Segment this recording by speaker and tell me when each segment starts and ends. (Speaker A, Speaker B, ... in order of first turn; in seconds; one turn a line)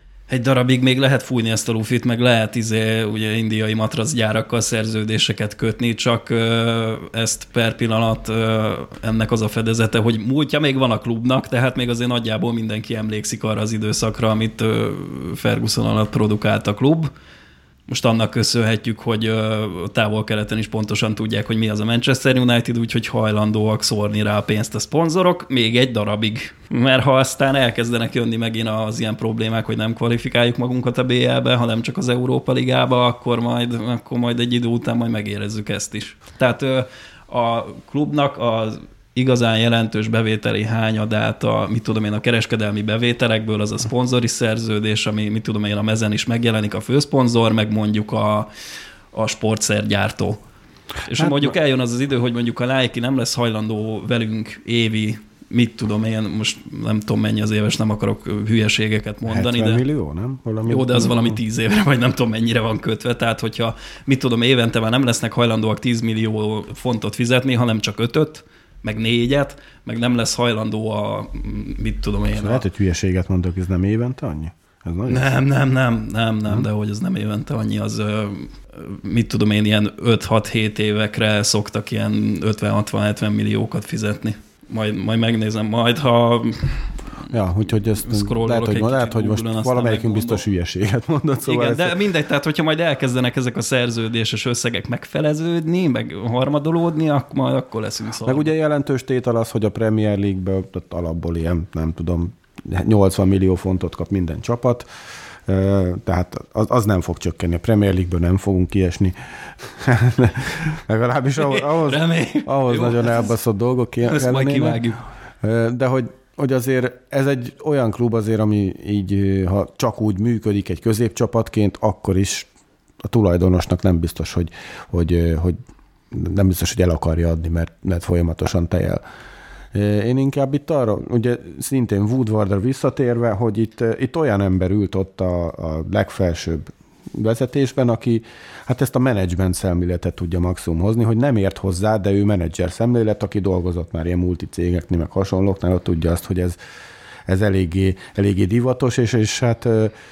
Speaker A: 0.3-17.1
Speaker A: 17.9-48.5
Speaker A: 49.1-50.4
Speaker A: 51.1-59.8
Speaker B: 51.1-51.5
Speaker B: 59.3-61.4
Speaker A: 60.7-72.6
Speaker B: 72.3-75.3
Speaker A: 75.1-86.9
Speaker B: 87.3-92.0
Speaker A: 88.0-90.4
Speaker A: 91.5-98.5
Speaker B: 98.2-104.9
Speaker B: 105.5-114.8
Speaker A: 111.4-113.3
Speaker A: 114.0-115.0
Speaker B: 115.4-122.5
Speaker B: 123.0-125.6
Speaker B: 126.1-129.0
Speaker B: 129.7-146.6
Speaker B: 147.3-149.9